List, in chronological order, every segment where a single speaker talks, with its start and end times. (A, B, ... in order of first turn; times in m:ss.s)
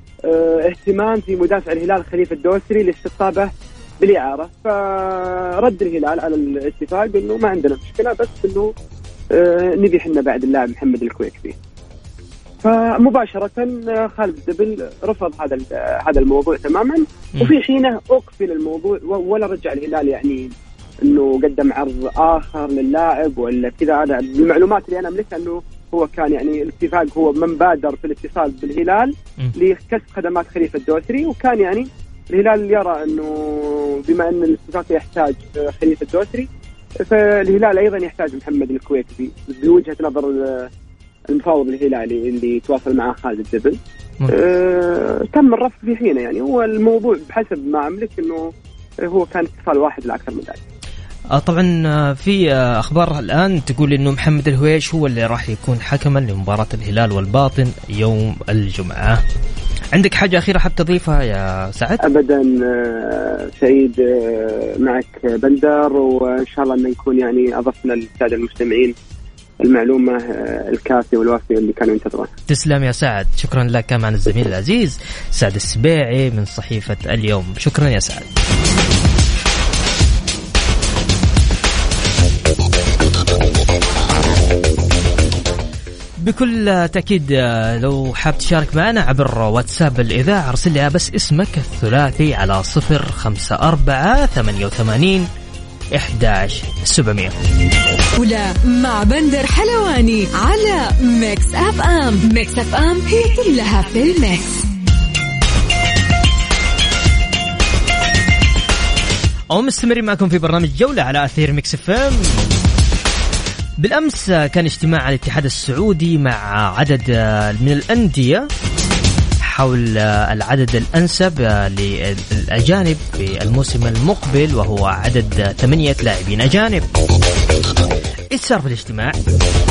0:00.2-0:08.7 A
0:09.3-0:11.6 A
0:12.6-0:36.5 A
0:37.0-0:40.7 A
0:41.3-0:48.5 A
0:49.0-0:50.6 A
0:51.3-0:59.2 B
0:59.9-1:02.0 B
1:02.0-1:08.9 A
1:09.6-1:12.3 A
1:12.5-1:18.3 B
1:26.2-1:35.2 B
1:35.9-1:37.3 B
1:38.2-1:44.6 C
1:49.5-1:52.6 B
1:53.8-1:58.5 B
1:59.4-2:06.8 B
2:08.3-2:09.2 B